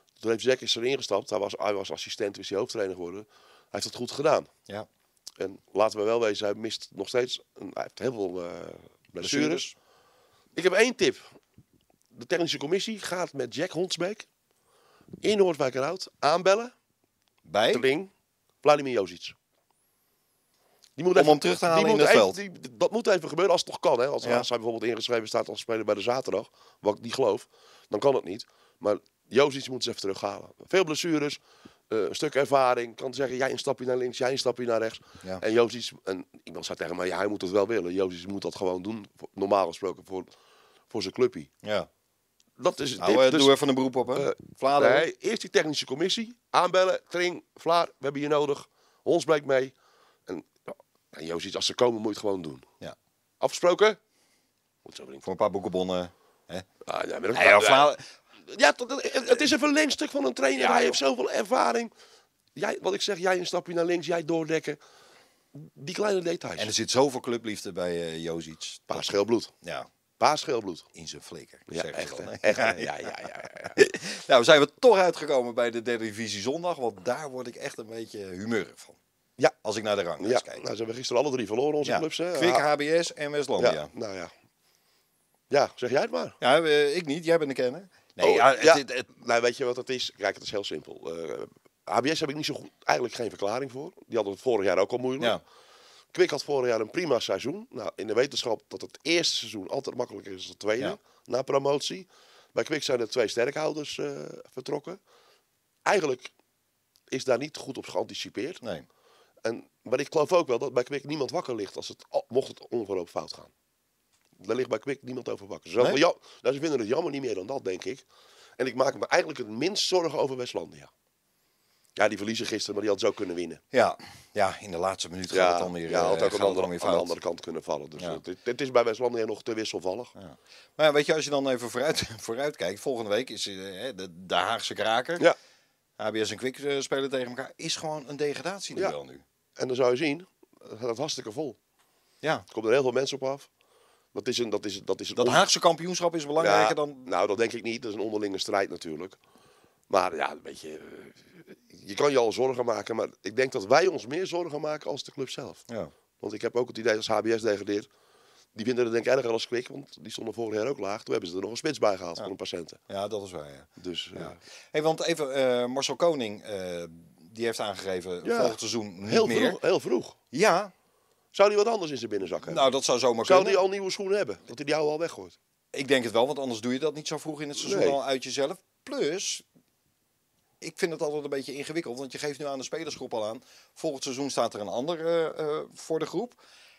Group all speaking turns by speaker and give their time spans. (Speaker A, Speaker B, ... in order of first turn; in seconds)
Speaker A: 0.2-4.5, 5.4-9.7, 10.6-11.3, 12.1-14.3, 15.2-16.7, 17.7-18.1, 18.6-19.4, 21.0-40.3, 40.9-41.5, 42.6-43.6, 44.1-49.8, 50.3-52.7, 53.4-54.0, 54.8-55.2, 56.8-61.9, 62.5-64.8, 65.5-66.7, 68.9-69.5, 70.2-70.9, 71.7-73.8, 80.2-82.7, 83.6-84.3, 85.5-86.4, 88.2-95.4, 96.1-105.0, 105.8-106.3, 107.1-108.6, 109.4-113.5, 114.4-118.0, 118.6-120.9, 122.0-123.6, 125.3-130.1, 139.6-141.6, 142.5-143.5, 144.1-145.4, 146.4-149.2, 149.9-155.6, 156.2-157.9, 158.6-162.8, 163.8-164.4, 168.2-170.2, 171.3-175.4, 177.6-178.0
Speaker B: 9.2-9.8, 17.4-17.8, 21.1-22.4, 41.6-41.9, 43.0-45.1, 55.2-56.6, 57.3-58.0, 60.5-61.0, 66.6-69.9, 70.9-73.0, 73.8-79.0, 79.6-80.6, 81.8-83.9, 86.4-89.0, 123.7-127.2, 130.2-135.3, 136.0-139.2, 145.2-147.1, 162.9-169.6, 170.3-170.7, 172.4-173.7, 175.7-179.4, 180.6-186.4